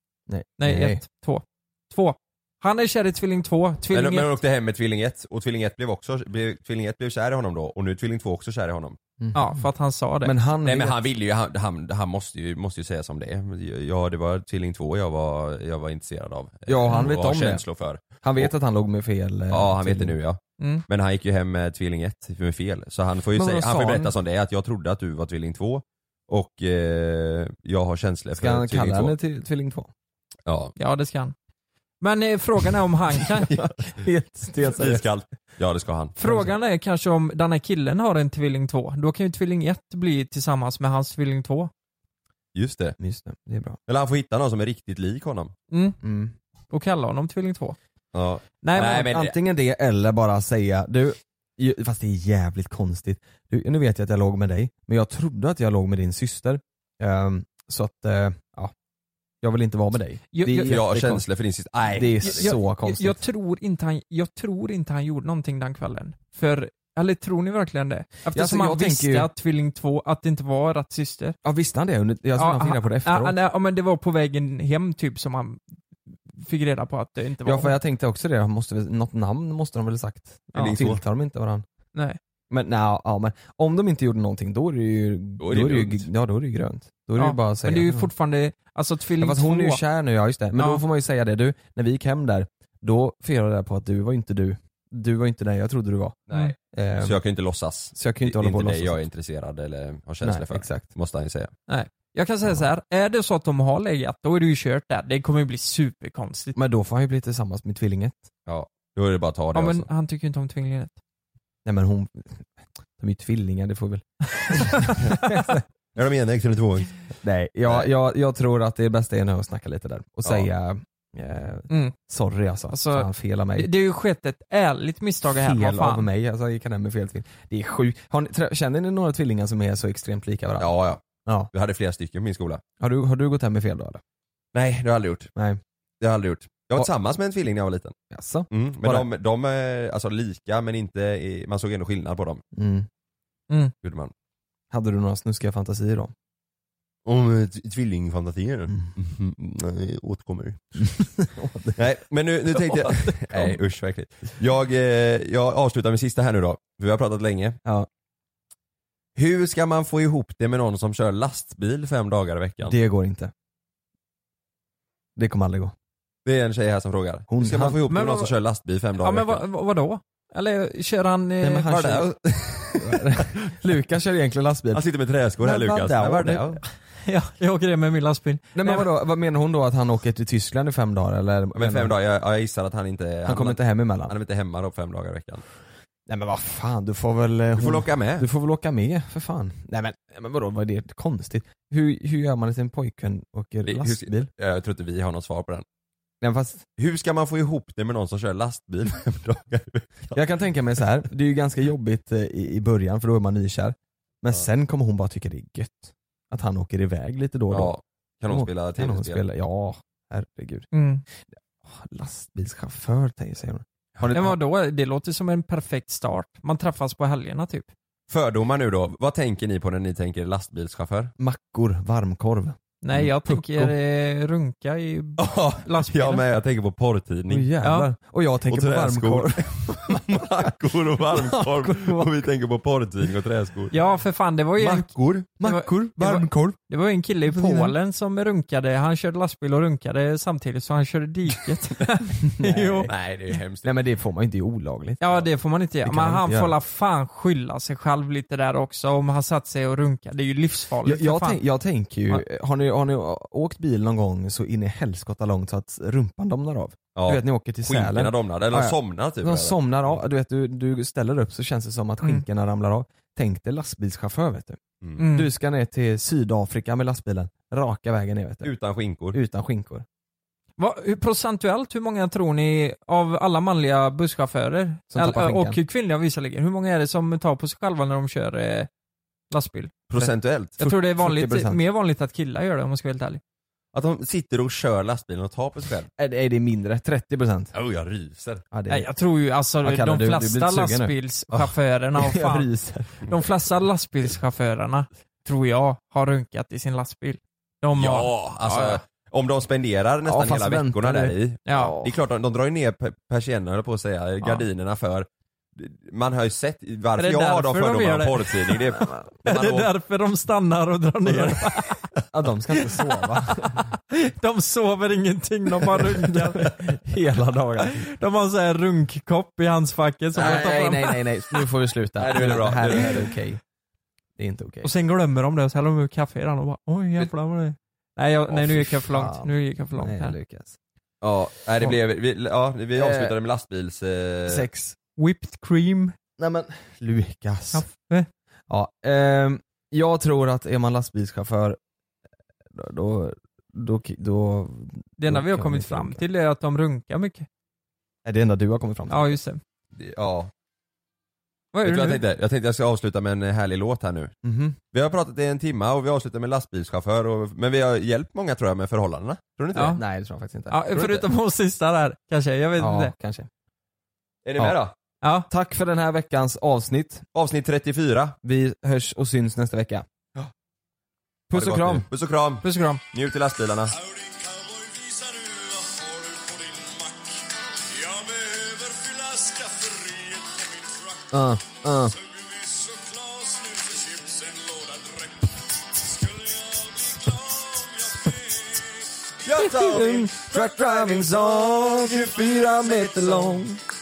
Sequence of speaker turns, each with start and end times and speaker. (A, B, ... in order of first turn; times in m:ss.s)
0:00.3-0:01.0 A
0:00.6-0:04.3 B
0:03.9-0:09.0 C
0:09.2-0:09.6 A
0:09.3-0:10.3 B
0:10.2-0:11.0 A
0:10.6-0:18.5 C
0:16.7-0:17.6 A
0:18.2-0:20.2 A
0:19.5-0:29.1 C
0:23.3-0:24.1 A
0:28.4-0:29.9 A
0:30.4-0:30.7 C
0:30.8-0:31.3 B
0:32.0-0:33.5 B
0:33.5-0:35.0 A
0:34.8-0:36.2 C
0:36.2-0:41.7 B
0:36.2-0:36.5 A
0:42.5-0:43.0 C
0:43.0-0:43.8 A
0:43.9-0:45.5 C
0:45.7-0:46.0 B
0:46.0-0:46.3 A
0:46.7-0:47.8 B
0:48.1-0:49.3 C
0:48.6-0:49.1 B
0:48.8-0:58.7 A
0:59.4-1:01.2 A
1:00.3-1:00.8 B
1:00.6-1:02.5 C
1:01.9-1:03.2 A
1:02.2-1:11.4 B
1:08.3-1:09.3 A
1:11.4-1:13.3 A
1:12.4-1:15.6 B
1:16.3-1:17.8 B
1:17.4-1:21.6 A
1:20.5-1:21.0 C
1:22.5-1:28.1 A
1:25.4-1:26.0 C
1:27.2-1:29.8 B
1:29.2-1:37.2 A
1:30.6-1:30.8 B
1:36.3-1:41.5 C
1:37.9-1:39.0 A
1:40.2-1:40.9 A
1:41.7-1:46.6 B
1:46.5-1:48.2 A
1:48.5-1:49.9 C
1:49.5-1:50.9 B
1:51.6-1:52.4 A
1:53.0-1:55.6 A
1:54.5-1:55.3 B
1:55.9-1:56.9 C
1:57.2-2:03.7 A
2:01.7-2:01.9 B
2:02.7-2:06.1 B
2:05.2-2:10.7 A
2:10.6-2:12.6 C
2:11.2-2:11.5 A
2:12.8-2:14.0 A
2:14.5-2:15.3 C
2:15.3-2:15.6 A
2:16.0-2:17.9 C
2:18.1-2:19.1 A
2:18.5-2:22.4 C
2:22.5-2:22.9 A
2:23.8-2:24.1 C
2:24.7-2:26.1 A
2:27.0-2:30.8 C
2:31.2-2:31.8 A
2:31.8-2:37.6 C
2:32.8-2:33.5 A
2:39.2-2:42.8 C
2:42.6-2:43.3 A
2:45.2-2:45.7 A
2:46.2-2:49.4 C
2:47.3-2:47.8 A
2:47.9-2:48.3 B
2:49.0-2:52.0 B
2:51.4-2:54.8 A
2:52.6-2:52.9 C
2:54.7-2:56.6 C
2:55.4-2:56.6 A
2:56.9-2:58.9 B
2:58.5-3:01.9 A
3:01.6-3:05.4 C
3:03.2-3:04.1 A
3:06.1-3:14.3 A
3:07.6-3:08.3 C
3:13.6-3:15.6 C
3:16.2-3:16.6 A
3:16.8-3:20.2 C
3:20.1-3:27.7 A
3:27.5-3:29.2 C
3:28.3-3:34.4 A
3:30.7-3:31.0 B
3:34.1-3:37.7 B
3:38.1-3:41.1 C
3:41.2-3:43.7 A
3:42.8-3:46.2 B
3:45.2-3:47.5 C
3:47.3-3:52.3 A
3:47.6-3:47.9 B
3:48.5-3:53.7 C
3:53.7-4:02.9 B
3:54.6-3:55.3 C
3:55.4-3:56.6 A
3:57.2-3:57.7 A
4:02.2-4:03.0 A
4:02.9-4:03.7 C
4:03.6-4:05.0 A
4:05.0-4:11.4 B
4:05.8-4:06.5 A
4:10.8-4:28.5 A
4:16.9-4:20.0 C
4:25.0-4:25.3 B
4:28.4-4:29.2 C
4:29.1-4:29.8 A
4:30.6-4:38.7 B
4:34.9-4:35.6 A
4:39.3-4:39.9 B
4:39.9-4:40.6 C
4:40.0-4:41.6 A
4:40.6-4:43.2 B
4:43.7-4:45.9 C
4:46.0-4:47.5 A
4:47.5-4:48.4 C
4:48.5-4:48.9 A
4:48.7-4:58.8 B
4:49.6-4:50.9 A
4:52.0-4:53.0 A
4:57.8-5:09.7 C
5:00.0-5:01.2 A
5:01.4-5:01.9 B
5:07.0-5:08.5 B
5:09.2-5:11.7 B
5:11.0-5:12.0 C
5:12.1-5:13.7 A
5:13.3-5:16.4 B
5:15.6-5:17.8 A
5:17.6-5:21.0 B
5:20.1-5:23.4 A
5:20.2-5:20.4 C
5:22.0-5:23.1 C
5:24.2-5:24.7 A
5:24.6-5:30.1 B
5:28.7-5:30.6 A
5:31.0-5:34.4 C
5:32.7-5:33.1 A
5:34.3-5:34.8 A
5:35.0-5:35.9 B
5:36.2-5:37.6 A
5:37.5-5:38.1 B
5:38.5-5:41.6 A
5:42.5-5:46.0 A
5:45.0-5:47.3 B
5:48.0-5:49.2 A
5:48.9-5:49.4 B
5:49.8-5:50.3 C
5:51.5-5:52.0 B
5:51.6-5:54.1 C
5:54.2-5:54.6 A
5:54.7-5:59.8 C
5:59.5-5:59.8 B
5:59.7-6:00.8 A
6:00.5-6:02.9 B
6:00.8-6:01.0 C
6:02.6-6:03.3 A
6:04.2-6:04.7 C
6:05.0-6:05.3 B
6:05.3-6:07.0 A
6:07.1-6:08.1 C
6:08.2-6:09.8 A
6:11.3-6:11.9 A
6:11.3-6:13.7 C
6:12.4-6:12.8 B
6:13.7-6:28.9 D
6:21.1-6:21.9 A
6:29.2-6:32.0 C
6:29.3-6:33.6 A
6:32.9-6:33.3 C